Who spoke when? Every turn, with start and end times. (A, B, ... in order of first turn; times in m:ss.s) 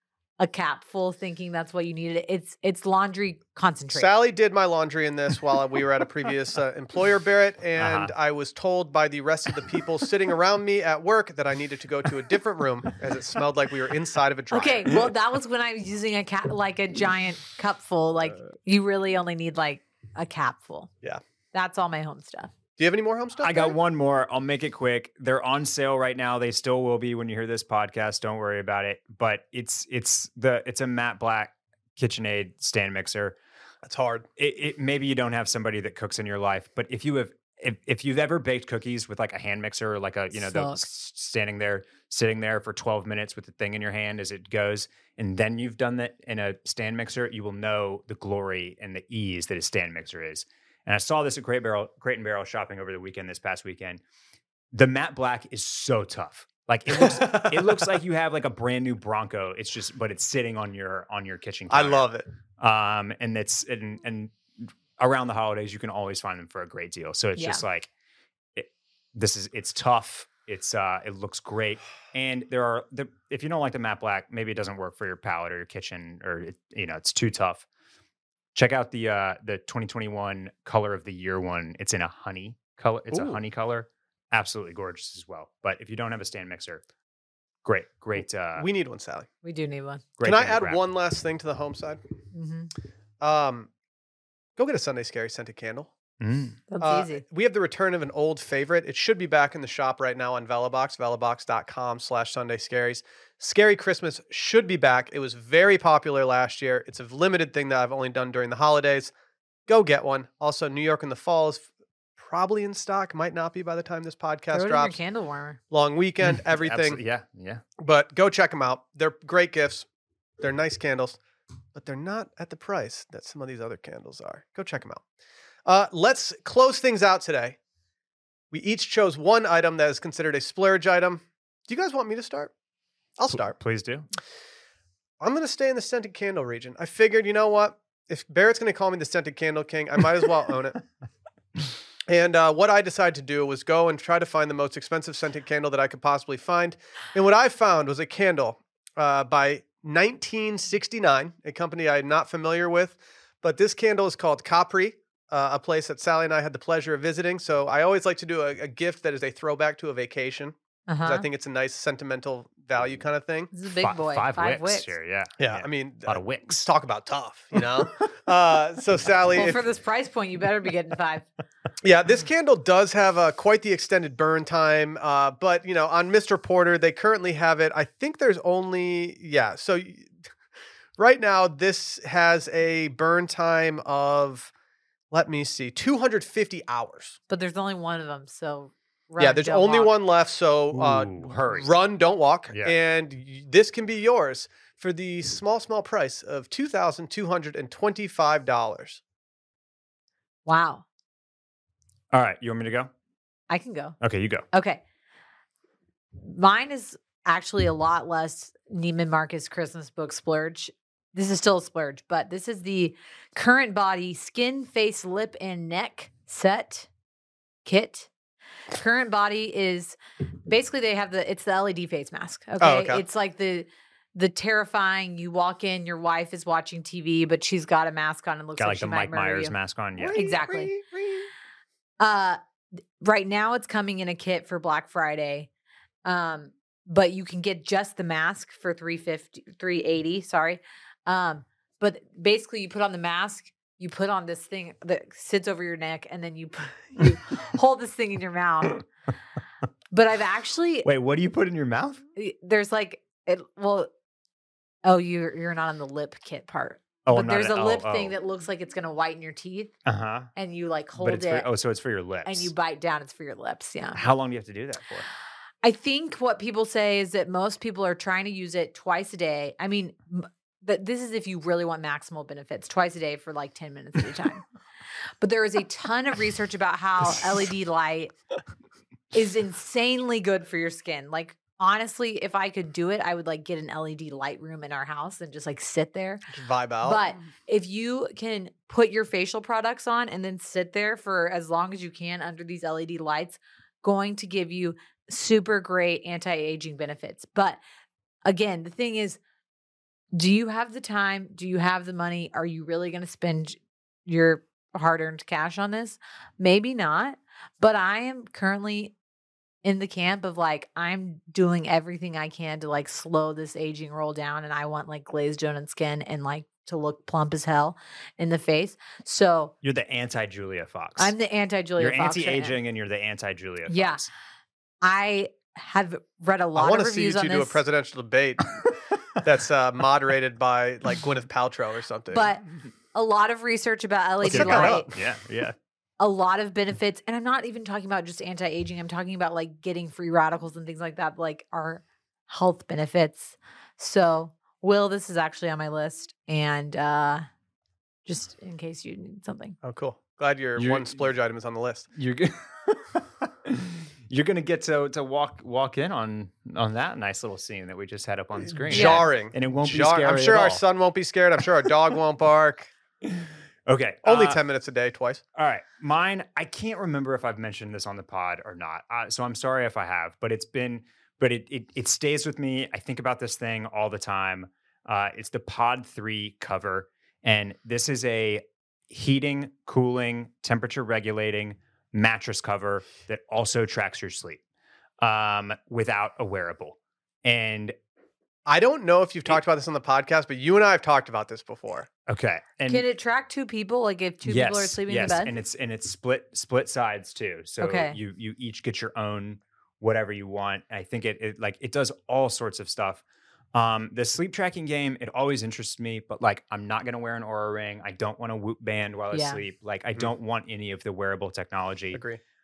0:00.4-0:04.1 A
0:03.9-0:15.0 B
0:07.8-0:08.1 C
0:14.5-0:20.9 A
0:21.5-0:22.5 A
0:22.8-0:23.7 B
0:23.4-0:33.4 C
0:33.8-0:34.3 B
0:34.4-0:54.0 C
0:40.3-0:40.8 A
0:54.7-1:02.1 C
0:56.9-0:57.9 B
1:01.7-1:02.2 B
1:02.6-1:07.9 C
1:07.4-1:07.6 A
1:08.5-1:17.6 C
1:18.5-1:26.8 C
1:23.1-1:23.4 B
1:27.6-1:28.7 C
1:28.6-1:29.3 B
1:29.4-1:30.0 A
1:30.2-1:30.8 C
1:30.2-1:32.0 B
1:32.3-1:32.7 A
1:33.2-1:33.7 B
1:34.6-1:35.9 B
1:36.2-1:36.6 C
1:36.7-1:37.2 A
1:36.8-1:49.1 B
1:49.7-1:55.0 B
1:54.5-1:55.6 A
1:55.7-1:57.0 B
1:56.2-1:57.6 C
1:57.8-1:59.9 B
2:00.4-2:01.2 B
2:01.7-2:05.0 B
2:05.6-2:07.6 B
2:08.5-2:12.5 B
2:13.2-2:13.6 B
2:13.3-2:14.1 C
2:15.2-2:20.8 B
2:22.1-2:43.5 B
2:40.9-2:41.2 A
2:43.5-2:44.9 A
2:43.8-2:46.6 C
2:45.4-2:49.6 B
2:49.3-2:51.3 A
2:51.8-3:00.1 B
3:01.0-3:04.5 B
3:05.1-3:07.2 B
3:07.3-3:09.9 A
3:09.2-3:19.0 B
3:10.7-3:11.7 C
3:20.4-3:20.8 A
3:22.1-3:22.9 C
3:23.5-3:24.0 A
3:24.0-3:24.4 C
3:24.5-3:24.8 A
3:26.2-3:36.9 A
3:37.6-3:38.1 A
3:38.7-3:49.5 A
3:42.6-3:43.0 B
3:48.6-3:50.2 C
3:50.0-3:51.3 B
3:50.1-3:50.7 A
3:52.0-3:52.4 A
3:53.0-3:55.5 A
3:56.0-4:08.9 A
4:09.9-4:10.9 A
4:10.8-4:12.0 C
4:12.2-4:13.9 A
4:14.8-4:19.7 A
4:17.0-4:18.1 C
4:19.8-4:20.3 C
4:20.4-4:21.5 A
4:21.0-4:22.5 C
4:22.2-4:24.0 A
4:24.0-4:25.0 C
4:25.6-4:34.4 A
4:35.2-4:38.2 A
4:39.1-4:46.2 A
4:46.3-4:47.0 B
4:46.8-4:57.6 A
4:58.2-4:59.2 A
5:00.1-5:08.9 A
5:09.6-5:19.5 A
5:19.6-5:21.1 C
5:21.0-5:22.6 A
5:21.8-5:24.1 C
5:23.7-5:24.0 A
5:24.8-5:27.6 A
5:26.5-5:28.6 B
5:29.2-5:32.2 B
5:32.1-5:34.9 A
5:34.2-5:34.9 B
5:34.2-5:35.6 C
5:36.0-5:47.2 A
5:48.0-5:49.6 A
5:49.6-5:51.9 B
5:50.6-5:51.0 C
5:51.9-6:00.6 C
5:58.4-6:02.7 B
5:58.7-5:59.1 A
6:03.0-6:04.4 C
6:04.0-6:05.2 B
6:05.3-6:24.4 C
6:25.0-6:27.8 C
6:28.4-6:31.9 B
6:32.1-6:32.8 C
6:32.7-6:35.3 A
6:34.2-6:52.0 C
6:37.6-6:38.0 A
6:49.1-6:49.4 A
6:51.9-6:52.2 B